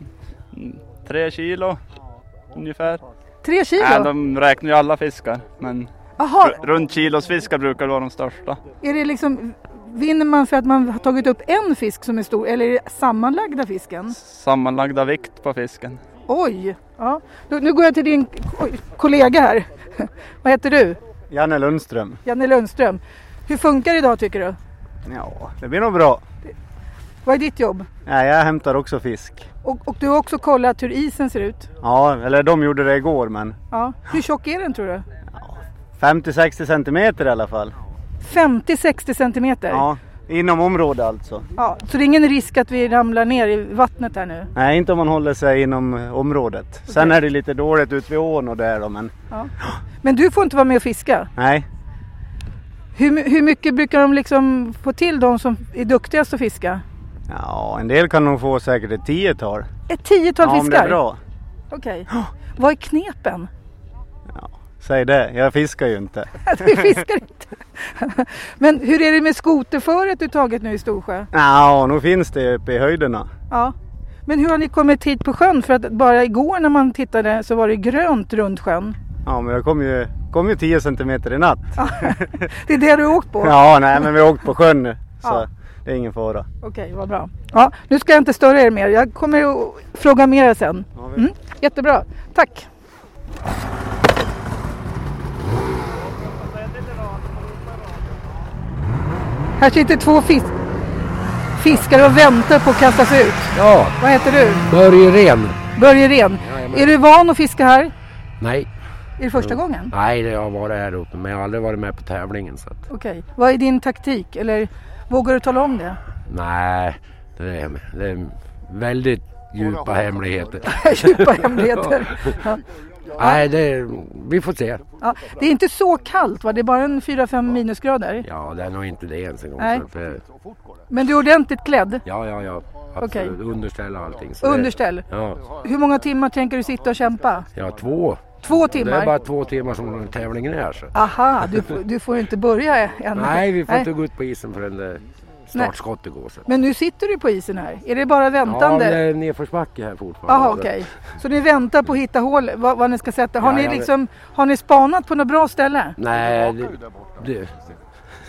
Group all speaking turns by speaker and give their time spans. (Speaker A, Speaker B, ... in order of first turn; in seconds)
Speaker A: 0.5-1.8, 2.5-3.0, 3.8-5.9, 6.4-8.6, 14.2-16.0
Speaker B: 3.4-4.1, 6.2-6.6, 8.8-14.2, 16.3-21.0, 22.2-24.6, 27.2-27.9, 29.6-31.7, 33.7-35.0, 38.2-39.8, 41.6-44.5, 50.0-51.3, 53.0-56.8, 59.9-61.0, 61.7-63.5, 66.4-71.3, 74.3-79.0, 81.8-83.5, 86.6-92.7, 99.6-100.5, 101.6-104.6, 105.8-107.9, 109.2-109.9, 112.9-116.0, 120.6-122.6, 125.0-128.2, 129.6-129.8, 130.9-132.0, 133.0-133.3, 134.4-137.5, 138.4-139.1, 140.9-143.9, 146.5-149.0, 150.3-155.9
Speaker C: 21.3-22.2, 25.1-26.2, 28.1-29.5, 31.8-33.6, 35.3-37.7, 39.7-41.5, 44.5-49.1, 51.4-51.6, 57.3-59.7, 60.4-61.2, 64.3-66.9, 71.3-73.3, 79.2-82.3, 83.4-86.5, 91.0-91.2
Speaker D: 103.5-104.0, 104.7-105.6, 106.4-106.9, 108.4-108.7, 109.3-112.8, 116.2-122.3, 123.2-124.8, 128.2-130.2, 132.0-135.5, 137.5-140.9, 143.1-146.5, 148.4-150.8, 153.4-153.9, 156.0-157.6